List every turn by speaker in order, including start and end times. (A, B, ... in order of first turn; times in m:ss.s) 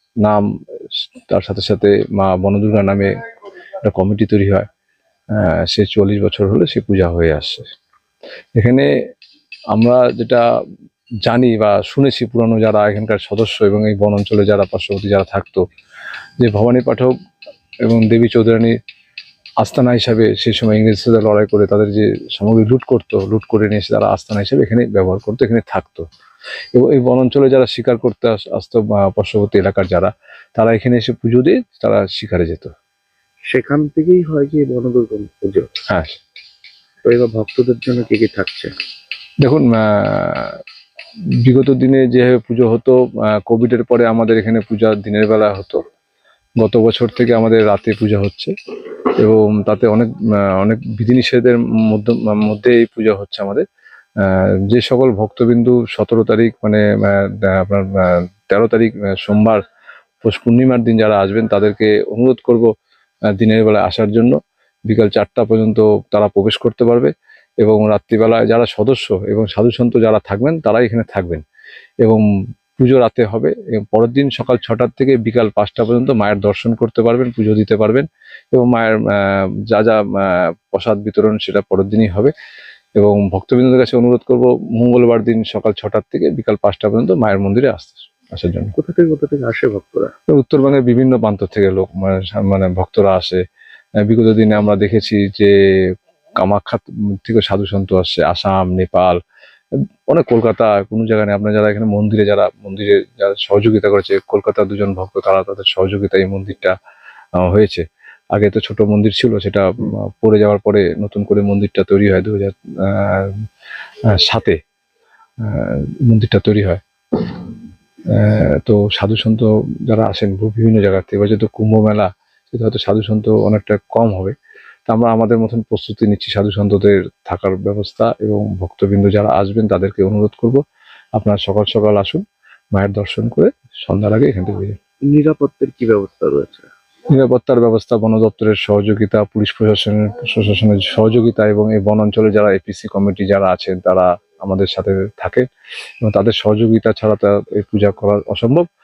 0:00.2-0:03.1 A
0:03.8-0:04.7 A
0:05.3-0:07.6 A
0:08.6-0:08.9 A
0:09.7-0:10.4 A
0:11.2-0:15.6 A
0:16.4-0:17.1 A
0:17.8-0:18.8 A
0:19.6-0:26.0 A
0:26.7-0:32.7 A
0:33.5-0:35.7 B
0:35.9-0:36.2 A
0:37.0-0:38.7 B
0:39.4-0:40.6 A
0:41.4-0:45.8 A
0:46.6-0:48.5 A
0:49.2-0:53.6 A
0:54.2-0:59.6 A
1:00.2-1:02.7 A
1:03.4-1:04.3 A
1:04.9-1:11.4 A
1:12.8-1:22.3 A
1:23.0-1:28.7 A
1:28.8-1:30.1 B
1:30.3-1:33.4 A
1:34.0-1:39.2 A
1:39.8-1:46.8 A
1:47.4-1:53.4 A
1:54.1-1:54.6 A
1:55.4-1:57.5 A
1:58.1-2:04.4 A
2:04.9-2:10.6 A
2:11.2-2:14.8 A
2:15.0-2:16.7 B
2:17.1-2:25.5 A
2:26.0-2:28.7 A